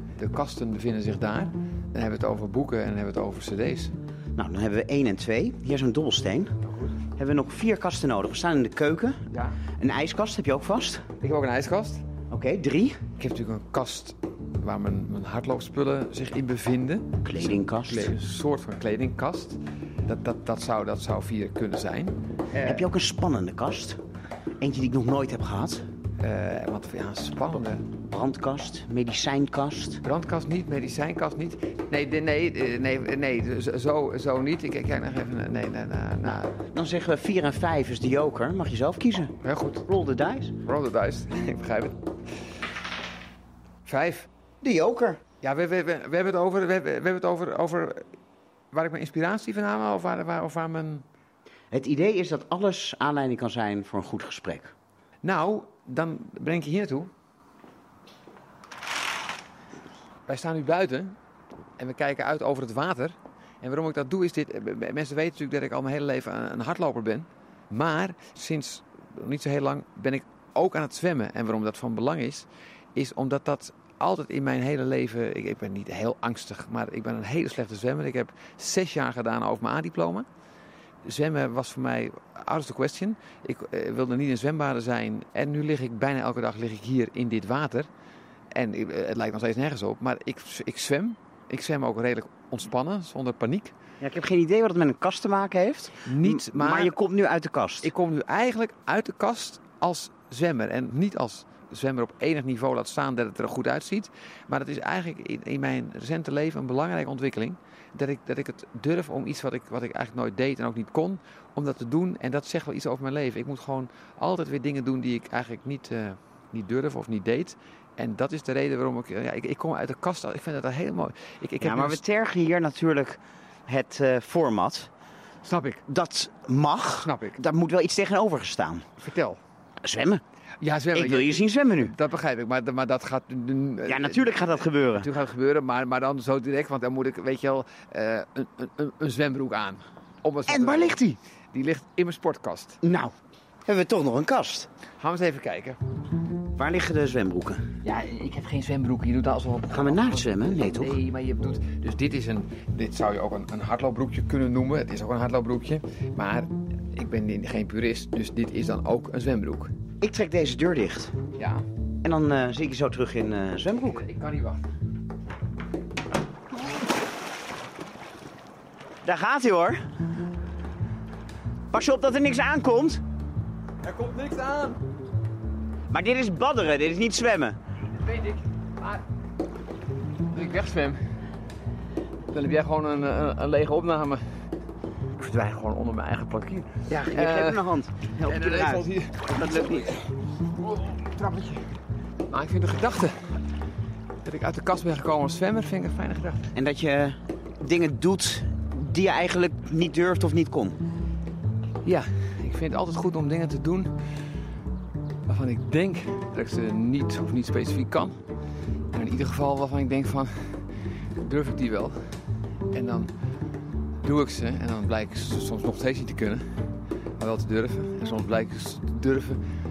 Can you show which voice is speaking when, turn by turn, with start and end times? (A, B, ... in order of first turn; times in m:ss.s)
0:00.2-0:03.9 A
0:04.4-0:06.5 B
0:07.2-0:09.2 B
0:09.3-0:09.6 A
0:09.8-0:11.1 B
0:11.2-0:12.0 A
0:12.3-0:13.0 B
0:13.2-0:22.9 A
0:17.2-0:18.2 B
0:22.7-0:24.0 B
0:24.6-0:25.8 B
0:26.2-0:27.9 A
0:28.1-0:30.0 B
0:30.0-0:36.6 A
0:36.7-0:39.3 B
0:39.4-0:39.8 A
0:39.9-0:40.5 B
0:40.6-0:42.0 A
0:43.8-0:44.3 A
0:44.6-0:45.2 B
0:45.4-0:48.0 A
0:48.7-0:51.0 A
0:51.7-0:54.7 B
0:55.2-0:57.1 A
1:00.3-1:01.2 A
1:01.8-1:20.3 A
1:21.0-1:27.9 A
1:28.5-1:33.7 A
1:34.0-1:37.9 B
1:36.0-1:37.0 A
1:37.8-2:02.0 A
2:01.6-2:04.9 B
2:05.4-2:05.8 A
2:05.9-2:08.9 B
2:07.0-2:07.4 A
2:09.0-2:09.4 A
2:09.8-2:10.2 B
2:10.6-2:14.5 A
2:10.9-2:11.9 B
2:13.9-2:15.1 B
2:15.0-2:22.8 A
2:20.5-2:21.2 B
2:22.8-2:23.1 B
2:23.7-2:24.7 B
2:25.0-2:25.8 A
2:26.6-2:27.6 B
2:27.8-2:39.7 A
2:29.7-2:31.0 B
2:40.0-2:41.2 B
2:41.4-2:41.6 A
2:42.0-2:44.0 B
2:43.8-2:44.6 A
2:49.0-2:49.8 B
2:51.7-2:53.0 B
2:53.8-2:54.8 A
2:55.9-2:57.6 B
2:58.0-2:59.0 A
3:00.3-3:01.0 A
3:02.3-3:04.2 A
3:05.2-3:07.7 A
3:06.9-3:09.9 B
3:08.2-3:10.1 A
3:10.6-3:11.6 A
3:12.3-3:13.4 A
3:14.2-3:16.5 A
3:16.5-3:20.8 B
3:21.8-3:23.9 A
3:25.3-3:28.2 A
3:28.9-3:32.1 A
3:32.7-3:33.1 A
3:34.0-3:36.4 A
3:37.2-3:39.4 A